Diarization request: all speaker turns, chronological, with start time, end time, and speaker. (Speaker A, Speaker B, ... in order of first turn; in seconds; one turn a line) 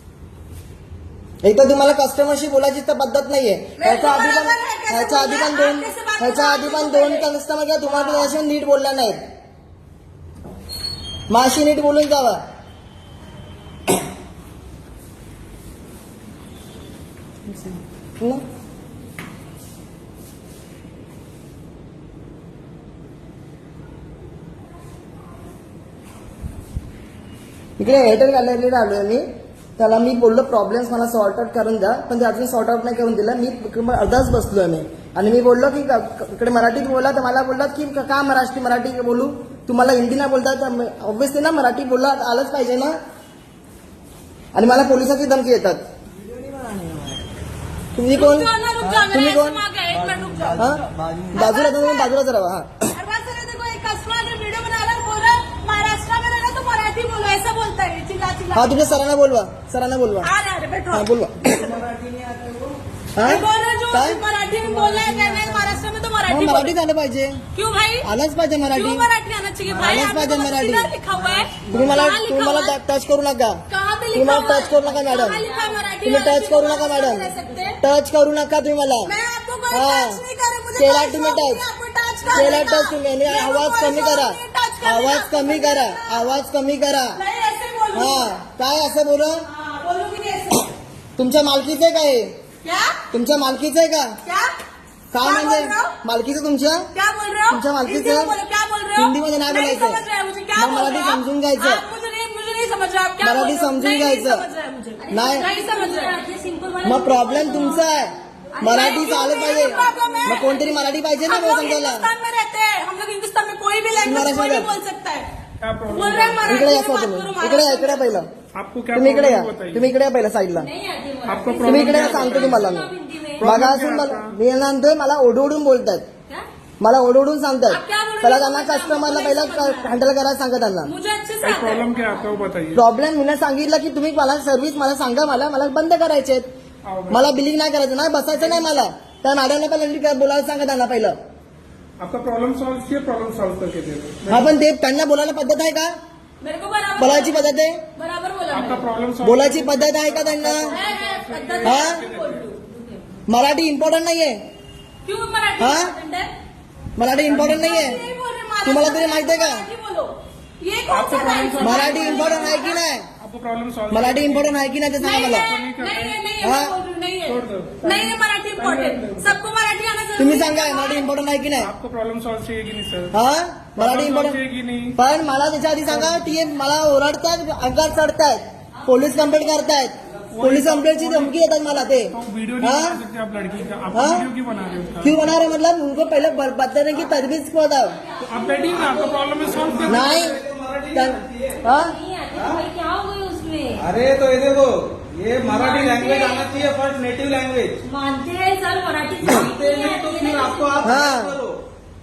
Speaker A: 1.4-9.2
Speaker B: 3.8-7.3
Speaker B: 8.0-8.3
Speaker A: 11.3-12.4
Speaker A: 17.5-18.4
Speaker A: 27.8-29.2
Speaker A: 29.8-42.9
Speaker A: 44.5-45.8
Speaker C: 46.2-47.2
Speaker A: 47.9-48.5
Speaker B: 48.1-50.6
Speaker A: 49.0-49.6
Speaker C: 49.9-51.4
Speaker A: 50.5-52.7
Speaker B: 51.3-52.1
Speaker B: 52.9-59.0
Speaker A: 58.5-60.3
Speaker B: 60.2-61.7
Speaker A: 60.9-61.6
Speaker C: 61.5-62.8
Speaker A: 63.1-64.2
Speaker B: 63.2-66.7
Speaker C: 64.6-65.6
Speaker A: 66.3-67.4
Speaker B: 67.5-68.1
Speaker A: 68.0-69.0
Speaker B: 68.7-72.8
Speaker A: 69.8-70.9
Speaker C: 71.4-72.0
Speaker A: 71.7-73.6
Speaker B: 73.7-77.8
Speaker A: 74.1-75.4
Speaker D: 74.9-76.0
Speaker A: 76.0-79.1
Speaker D: 77.2-77.7
Speaker B: 79.0-86.3
Speaker A: 79.7-80.2
Speaker A: 80.8-81.6
Speaker A: 82.3-87.2
Speaker B: 87.1-88.3
Speaker A: 87.9-89.4
Speaker B: 89.5-90.7
Speaker A: 91.2-92.3
Speaker B: 92.6-93.0
Speaker A: 93.1-94.1
Speaker B: 94.2-94.5
Speaker A: 95.1-96.9
Speaker B: 95.2-95.9
Speaker B: 96.9-106.2
Speaker A: 97.5-98.3
Speaker A: 99.0-100.0
Speaker A: 100.5-101.8
Speaker A: 103.2-104.5
Speaker D: 105.0-107.8
Speaker A: 105.1-105.5
Speaker A: 106.8-112.1
Speaker B: 107.4-107.8
Speaker D: 108.5-110.5
Speaker B: 108.6-115.2
Speaker A: 114.0-114.7
Speaker E: 115.6-116.7
Speaker B: 115.9-118.2
Speaker A: 116.4-118.3
Speaker E: 118.6-119.9
Speaker A: 118.9-120.7
Speaker D: 120.5-123.5
Speaker E: 121.2-122.7
Speaker A: 121.6-126.0
Speaker E: 123.4-124.4
Speaker A: 126.8-130.9
Speaker B: 127.7-129.9
Speaker B: 130.8-132.0
Speaker E: 131.4-132.8
Speaker A: 132.7-136.5
Speaker E: 136.8-137.4
Speaker A: 137.1-141.2
Speaker E: 142.0-144.6
Speaker A: 144.3-145.9
Speaker B: 146.4-147.4
Speaker A: 147.0-147.8
Speaker D: 147.1-147.4
Speaker B: 147.9-148.8
Speaker E: 148.5-152.4
Speaker A: 149.2-150.7
Speaker B: 150.7-152.5
Speaker A: 151.6-152.0
Speaker D: 152.7-153.0
Speaker A: 153.3-154.3
Speaker B: 155.0-156.3
Speaker A: 155.6-155.9
Speaker A: 157.0-158.0
Speaker E: 157.2-157.8
Speaker B: 157.6-162.8
Speaker A: 158.6-159.6
Speaker E: 160.9-162.6
Speaker A: 161.6-163.0
Speaker E: 163.2-164.5
Speaker A: 163.9-165.5
Speaker B: 165.0-171.1
Speaker E: 165.4-166.2
Speaker A: 166.4-166.7
Speaker E: 167.2-169.3
Speaker A: 170.2-171.7
Speaker E: 171.6-173.2
Speaker A: 173.1-174.4
Speaker E: 173.8-175.0
Speaker A: 175.0-183.0
Speaker E: 175.9-176.2
Speaker E: 180.3-185.3
Speaker A: 183.9-184.3
Speaker A: 185.0-187.9
Speaker E: 188.2-190.1
Speaker D: 188.3-189.3
Speaker C: 188.9-191.6
Speaker A: 189.9-190.4
Speaker A: 190.9-191.9
Speaker D: 191.6-193.8
Speaker C: 192.3-192.6
Speaker C: 193.8-197.8
Speaker D: 195.5-196.5
Speaker D: 197.8-201.0
Speaker C: 199.2-201.6
Speaker A: 200.8-201.4